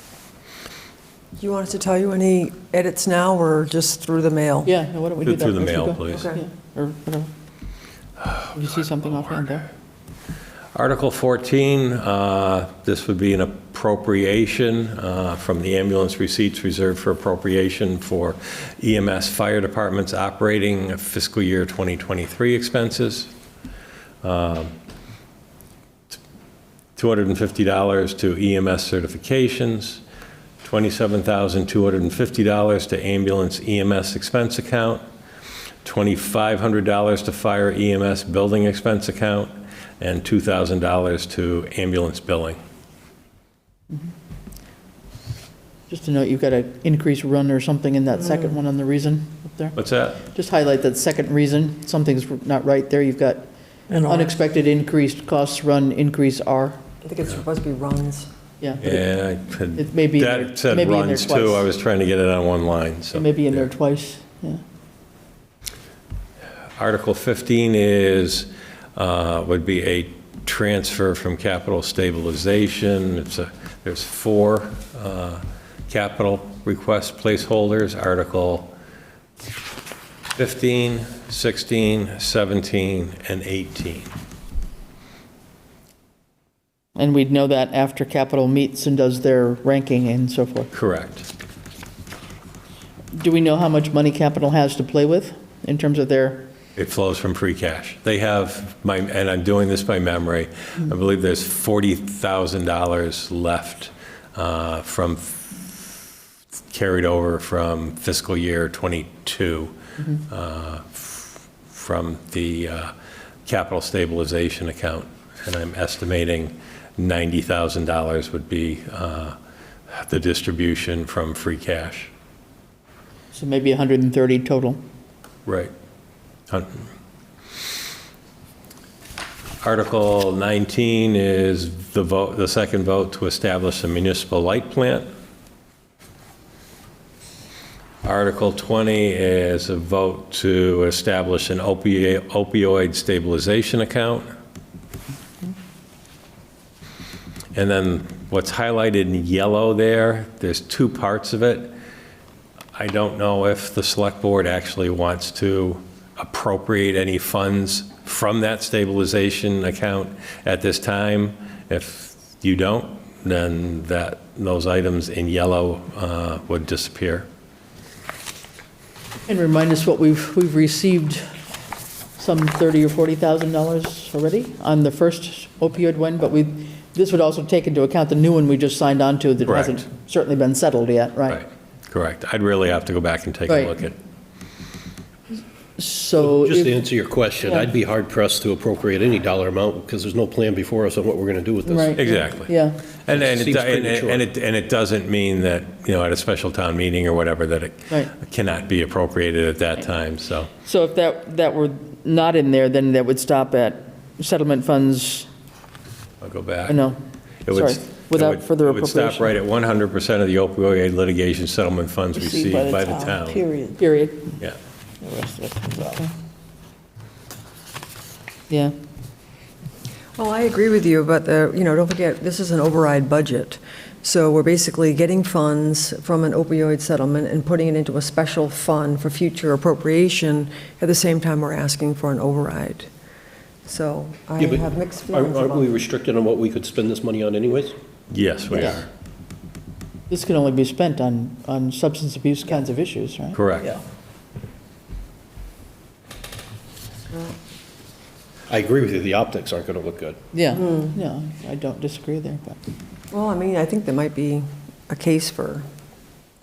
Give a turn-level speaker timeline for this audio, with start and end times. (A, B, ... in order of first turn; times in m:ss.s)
0:01.4-0:04.7 A
0:04.6-0:07.3 B
0:05.2-0:06.3 C
0:06.1-0:06.4 A
0:08.4-0:09.7 B
0:10.8-0:23.3 C
0:24.2-0:24.7 C
0:27.0-0:30.0 C
0:30.6-0:35.0 C
0:35.8-0:42.6 C
0:45.9-0:53.5 B
0:49.8-0:50.2 C
0:53.9-0:54.2 D
0:54.0-0:56.8 B
0:57.0-0:58.3 A
0:58.6-0:59.0 B
0:58.8-1:03.7 C
0:59.8-1:01.7 B
1:03.1-1:04.6 B
1:06.8-1:18.7 C
1:20.4-1:24.1 C
1:27.0-1:30.7 B
1:30.7-1:31.3 C
1:33.1-1:36.5 B
1:36.8-1:46.0 C
1:46.7-1:52.9 C
1:53.5-1:59.4 C
1:59.9-2:02.1 C
2:03.3-2:04.8 B
2:05.5-2:05.7 C
2:06.5-2:06.9 C
2:09.6-2:15.1 C
2:18.0-2:24.3 C
2:27.6-2:31.7 C
2:32.8-2:47.3 C
2:49.3-2:51.3 B
2:52.2-3:01.4 B
2:59.5-2:59.8 C
3:01.3-3:04.0 C
3:03.5-3:03.8 B
3:05.8-3:06.8 B
3:06.2-3:12.2 E
3:07.4-3:07.7 B
3:11.7-3:12.8 B
3:12.0-3:20.5 C
3:13.1-3:14.3 E
3:20.6-3:25.3 B
3:26.2-3:26.8 C
3:26.7-3:29.4 B
3:27.5-3:33.5 C
3:32.2-3:33.8 D
3:33.8-3:34.3 B
3:35.0-3:36.0 D
3:38.5-3:38.8 B
3:40.2-3:52.9 A
3:53.6-3:55.7 A
3:54.4-3:57.7 E
3:58.1-3:58.9 C
3:58.5-3:58.8 B
4:00.1-4:03.7 B
4:03.3-4:03.8 C
4:07.1-4:07.4 A
4:08.5-4:10.1 E
4:10.3-4:12.6 B
4:13.1-4:15.7 A